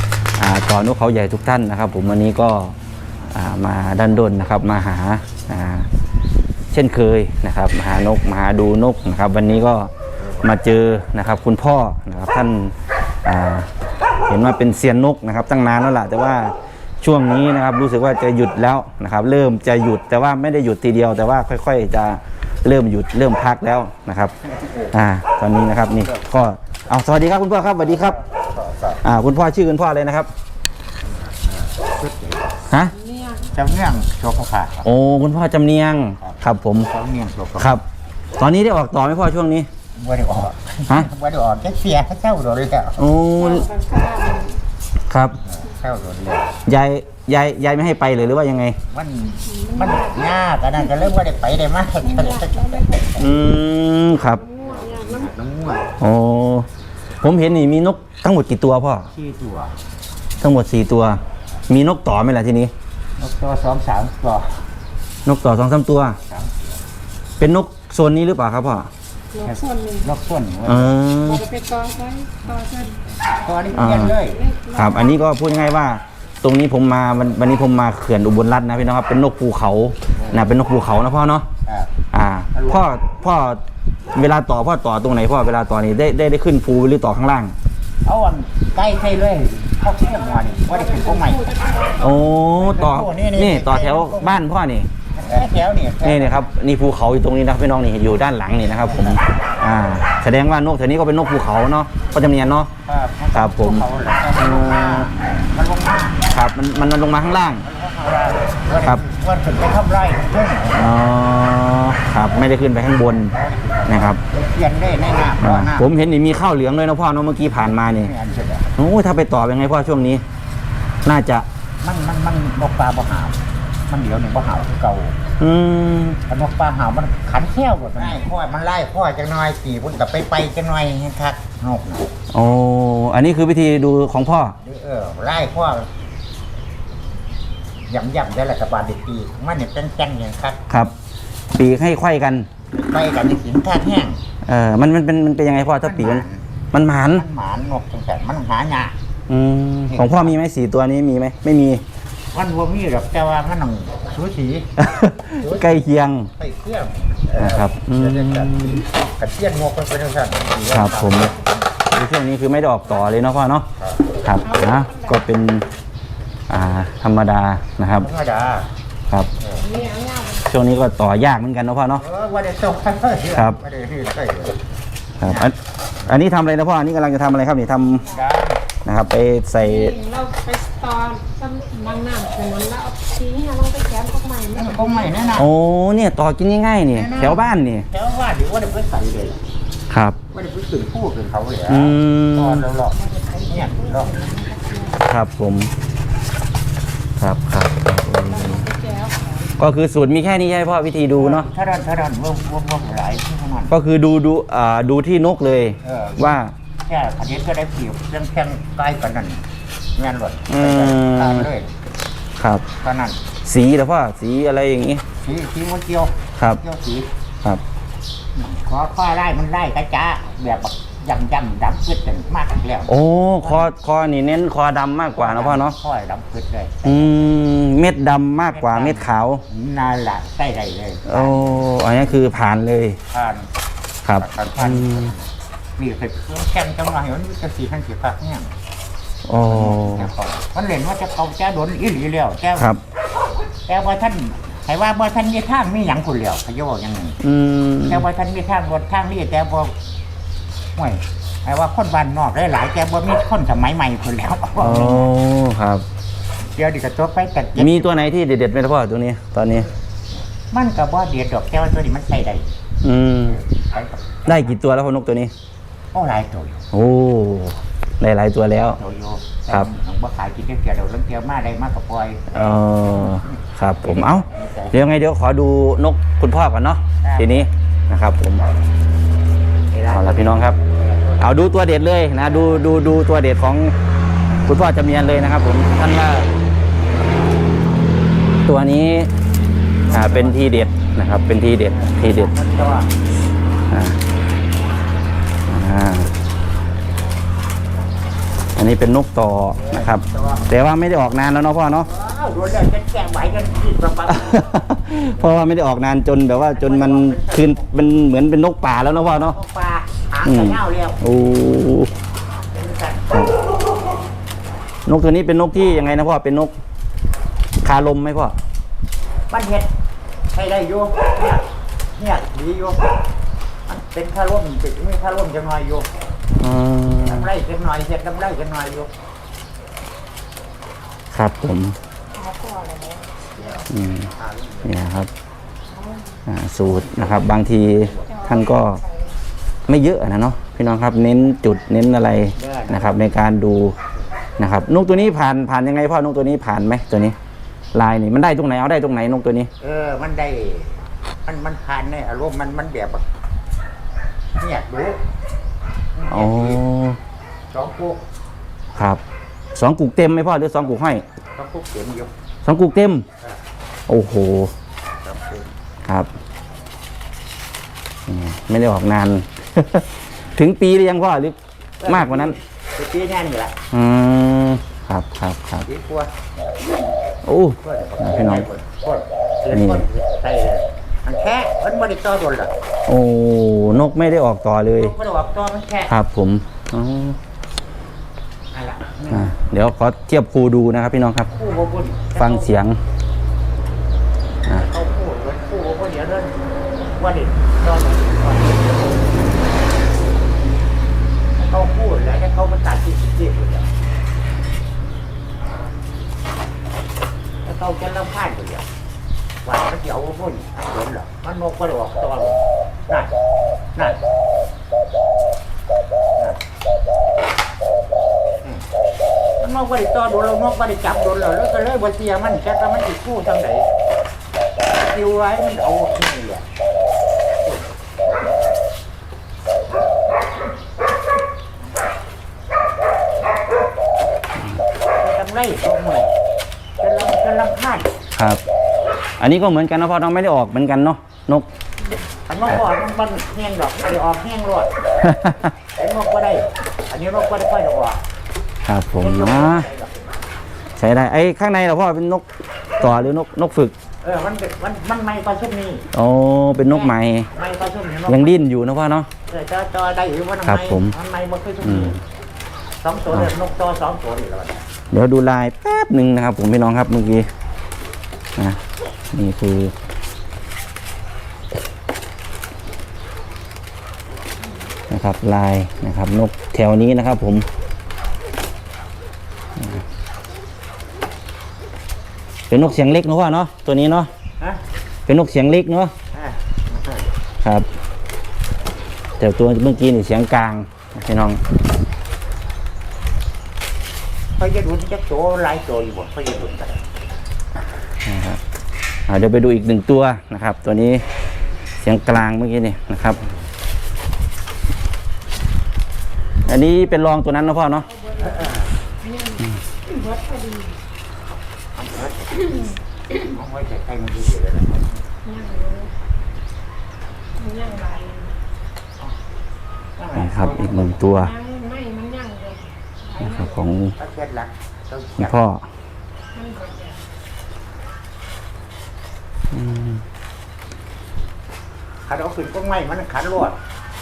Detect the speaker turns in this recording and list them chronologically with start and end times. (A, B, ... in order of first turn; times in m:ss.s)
0:00.4-0:02.8 A
0:03.3-0:05.9 A
0:06.7-0:13.7 A
0:14.3-0:24.3 A
0:24.6-0:24.9 B
0:24.9-0:28.2 A
0:27.8-0:29.0 B
0:29.0-0:30.3 A
0:31.2-0:32.6 B
0:32.7-0:32.9 A
0:33.0-0:33.5 C
0:33.5-0:34.9 B
0:34.8-0:36.9 A
0:36.2-0:37.8 B
0:37.6-0:37.8 A
0:38.4-0:39.7 A
0:40.0-0:43.0 B
0:43.0-0:43.7 A
0:43.4-0:44.6 C
0:45.1-0:45.4 A
0:45.4-0:46.5 B
0:46.6-0:48.8 A
0:48.9-0:53.4 B
0:49.5-0:50.1 C
0:52.0-0:53.2 C
0:53.2-0:54.4 A
0:54.3-0:55.3 C
0:54.6-0:55.9 B
0:56.0-0:56.7 A
0:57.2-0:59.1 A
0:59.1-0:59.8 B
1:00.4-1:02.7 A
1:03.2-1:04.6 B
1:05.2-1:06.2 A
1:06.2-1:06.8 B
1:07.4-1:08.9 A
1:09.3-1:10.1 C
1:09.4-1:11.0 B
1:10.6-1:11.5 A
1:11.2-1:13.1 C
1:13.4-1:14.4 B
1:13.7-1:14.2 A
1:14.2-1:15.2 C
1:14.7-1:21.5 A
1:21.6-1:21.9 B
1:22.1-1:23.6 A
1:22.5-1:22.9 B
1:24.1-1:27.5 A
1:28.0-1:31.4 B
1:30.1-1:32.2 C
1:32.0-1:34.9 A
1:32.5-1:34.4 B
1:35.1-1:36.5 B
1:36.0-1:42.7 A
1:38.8-1:39.8 B
1:42.8-1:46.2 B
1:43.3-1:45.1 A
1:46.3-1:47.6 A
1:47.6-1:50.9 B
1:50.8-1:53.3 A
1:53.3-1:56.0 B
1:53.9-1:54.2 A
1:55.4-1:58.1 A
1:57.6-1:58.7 B
1:58.8-2:00.2 A
2:01.0-2:01.4 A
2:01.8-2:05.2 B
2:05.4-2:06.2 A
2:06.3-2:12.1 B
2:12.3-2:14.6 A
2:14.6-2:15.9 B
2:17.8-2:20.6 B
2:20.7-2:20.9 A
2:21.5-2:22.5 A
2:22.7-2:24.2 B
2:24.4-2:27.2 A
2:25.8-2:26.4 B
2:27.1-2:28.9 B
2:29.3-2:31.8 A
2:29.9-2:30.3 B
2:32.3-2:34.8 B
2:34.8-2:36.3 A
2:35.4-2:41.4 B
2:37.4-2:38.8 A
2:40.7-2:41.3 A
2:41.9-2:43.7 A
2:44.2-2:45.6 A
2:44.4-2:45.2 C
2:46.5-2:48.1 A
2:48.0-2:48.7 B
2:49.4-2:49.6 B
2:49.5-2:50.5 C
2:50.4-2:52.0 A
2:52.0-2:54.6 B
2:53.3-2:53.6 A
2:55.2-2:58.1 A
2:55.2-2:55.5 B
2:58.0-2:58.6 B
2:58.8-3:00.0 A
2:59.6-3:05.4 C
3:04.5-3:05.5 B
3:05.4-3:07.9 A
3:06.9-3:09.4 B
3:09.9-3:10.2 A
3:10.3-3:14.2 B
3:11.7-3:12.6 A
3:12.9-3:15.0 C
3:15.0-3:15.7 A
3:17.2-3:18.7 A
3:18.3-3:19.5 C
3:19.6-3:21.5 A
3:21.1-3:23.7 B
3:23.7-3:26.5 A
3:25.8-3:29.4 B
3:30.0-3:31.7 B
3:30.5-3:31.5 A
3:32.4-3:32.6 A
3:32.8-3:33.2 B
3:33.4-3:35.0 A
3:35.1-3:37.1 B
3:38.3-3:43.7 B
3:42.9-3:45.8 A
3:45.2-3:47.1 B
3:46.8-3:49.4 A
3:48.5-3:51.7 B
3:51.1-3:53.0 A
3:53.1-3:53.5 B
3:54.0-3:55.1 A
3:54.1-3:58.5 B
3:59.3-4:00.1 A
3:59.4-4:02.7 B
4:02.6-4:02.8 A
4:03.6-4:07.2 B
4:07.2-4:08.0 A
4:07.8-4:09.7 B
4:10.8-4:15.1 B
4:14.6-4:15.8 A
4:16.5-4:18.1 B
4:17.6-4:19.7 A
4:20.5-4:22.6 B
4:22.8-4:23.4 A
4:23.2-4:24.6 B
4:24.2-4:25.3 A
4:25.9-4:26.6 B
4:26.7-4:28.8 A
4:28.7-4:33.3 B
4:32.3-4:38.4 A
4:33.8-4:34.9 B
4:37.0-4:37.5 B
4:39.7-4:41.2 B
4:39.9-4:40.6 A
4:41.2-4:43.7 A
4:44.4-4:46.3 A
4:48.4-4:49.1 A
4:49.8-4:50.7 B
4:49.9-4:52.3 A
4:51.6-4:52.9 B
4:53.7-4:54.0 A
4:55.5-4:56.1 A
4:58.6-5:01.9 A
4:59.6-5:00.4 B
5:01.8-5:04.5 B
5:04.1-5:09.4 A
5:05.2-5:05.4 B
5:06.3-5:07.7 B
5:09.1-5:11.0 B
5:10.2-5:11.9 A
5:12.4-5:13.1 B
5:14.8-5:16.5 A
5:17.6-5:18.3 A
5:19.3-5:19.7 B
5:20.3-5:21.4 B
5:21.9-5:22.8 B
5:23.7-5:25.9 B
5:26.4-5:27.3 A
5:27.0-5:28.9 B
5:31.1-5:31.8 A
5:32.1-5:33.6 C
5:33.7-5:34.1 A
5:34.2-5:34.7 B
5:34.6-5:35.1 A
5:35.7-5:36.2 C
5:36.2-5:38.8 A
5:36.7-5:38.1 B
5:38.0-5:39.1 C
5:39.7-5:43.8 A
5:42.3-5:43.1 B
5:44.4-5:47.2 A
5:47.7-5:49.5 A
5:49.6-5:53.0 B
5:54.4-5:55.0 B
5:56.0-5:56.6 B
5:56.1-5:57.0 A
5:57.5-5:58.0 B
5:58.8-5:59.0 A
5:59.5-6:01.0 A
6:01.3-6:02.1 B
6:02.4-6:03.0 A
6:03.9-6:04.5 A
6:05.0-6:05.5 B
6:08.1-6:12.4 A
6:11.8-6:13.6 B
6:13.7-6:15.6 A
6:15.6-6:16.1 B
6:17.2-6:18.5 A
6:17.6-6:22.5 B
6:19.5-6:19.8 A
6:22.9-6:24.9 A
6:24.7-6:25.9 B
6:25.9-6:27.2 A
6:28.5-6:29.3 B
6:29.1-6:31.3 A
6:31.3-6:32.5 B
6:32.2-6:32.8 A
6:34.5-6:36.4 B
6:37.0-6:39.0 B
6:41.4-6:43.7 B
6:47.4-6:48.6 B
6:49.4-6:53.1 B
6:53.8-6:54.0 B
6:59.4-7:03.7 B
7:04.7-7:06.4 B
7:07.4-7:07.7 B
7:15.0-7:16.1 B
7:16.8-7:17.9 B
7:18.2-7:18.4 A
7:19.2-7:21.5 A
7:22.3-7:24.7 B
7:25.0-7:25.5 A
7:25.7-7:28.0 B
7:28.7-7:29.6 A
7:29.0-7:30.2 B
7:30.8-7:32.2 A
7:32.8-7:33.1 B
7:32.8-7:33.7 A
7:34.0-7:35.9 B
7:35.9-7:37.3 A
7:36.6-7:38.4 B
7:38.1-7:39.1 A
7:39.3-7:42.0 B
7:40.4-7:40.9 A
7:41.6-7:42.0 A
7:42.8-7:44.6 B
7:44.9-7:47.3 A
7:49.1-7:49.7 A
7:54.9-7:57.4 A
8:02.5-8:04.1 A
8:05.0-8:05.9 A
8:06.1-8:07.0 B
8:09.2-8:11.4 A
8:14.4-8:16.8 B
8:18.0-8:18.4 A
8:19.1-8:21.0 A
8:21.8-8:23.2 A
8:26.4-8:27.9 A
8:27.9-8:30.8 C
8:28.2-8:28.7 B
8:31.7-8:35.0 B
8:35.2-8:35.9 C
8:37.4-8:38.3 C
8:40.0-8:41.0 B
8:40.1-8:41.3 A
8:41.0-8:43.6 C
8:43.2-8:44.0 A
8:44.0-8:45.3 B
8:45.2-8:45.7 A
8:46.3-8:47.0 C
8:49.5-8:50.0 A
8:52.1-8:53.6 B